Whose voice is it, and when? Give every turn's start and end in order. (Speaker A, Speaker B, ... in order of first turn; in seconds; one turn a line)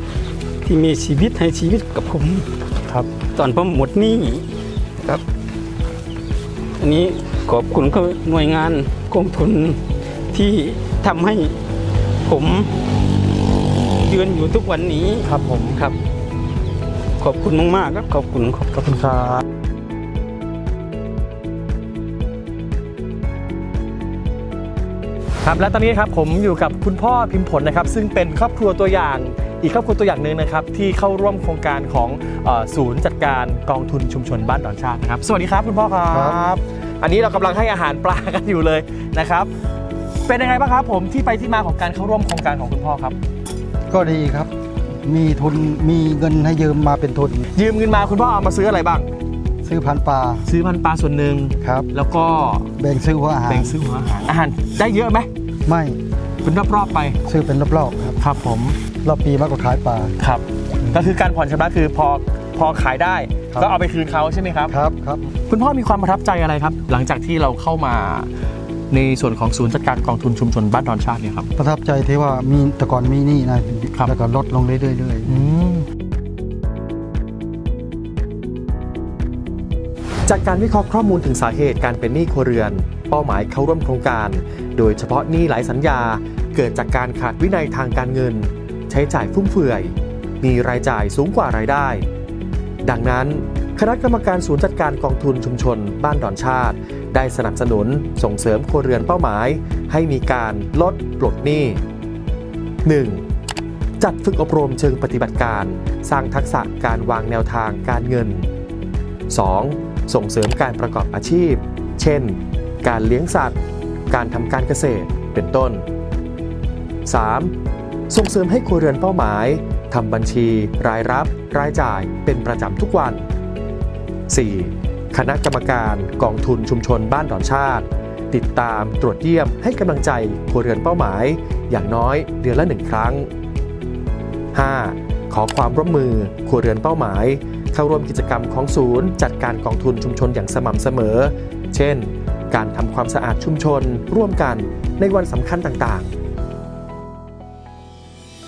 Speaker A: 0.6-2.5
Speaker A: 3.3-4.5
Speaker A: 6.8-9.8
Speaker A: 10.3-11.6
Speaker A: 12.2-12.7
Speaker A: 14.0-16.0
Speaker B: 15.2-15.8
Speaker A: 17.2-18.7
Speaker B: 18.7-19.4
Speaker B: 25.4-39.5
Speaker C: 36.1-36.4
Speaker B: 40.3-43.2
Speaker C: 43.9-44.5
Speaker C: 45.0-47.5
Speaker B: 47.5-49.1
Speaker C: 49.6-50.5
Speaker B: 50.5-52.7
Speaker C: 51.6-51.9
Speaker C: 52.8-53.8
Speaker B: 53.5-55.3
Speaker C: 55.7-56.0
Speaker B: 56.4-57.2
Speaker C: 57.3-58.2
Speaker B: 58.2-58.8
Speaker C: 59.0-60.1
Speaker B: 60.2-64.7
Speaker C: 64.7-65.2
Speaker B: 65.5-68.3
Speaker B: 68.9-71.5
Speaker C: 71.6-75.4
Speaker B: 75.3-75.9
Speaker B: 80.3-92.1
Speaker B: 92.9-101.8
Speaker B: 102.8-103.2
Speaker B: 104.0-108.5
Speaker B: 109.3-113.6
Speaker B: 114.1-115.8
Speaker B: 117.1-117.5
Speaker B: 118.1-123.3
Speaker B: 124.3-133.3
Speaker B: 134.6-146.1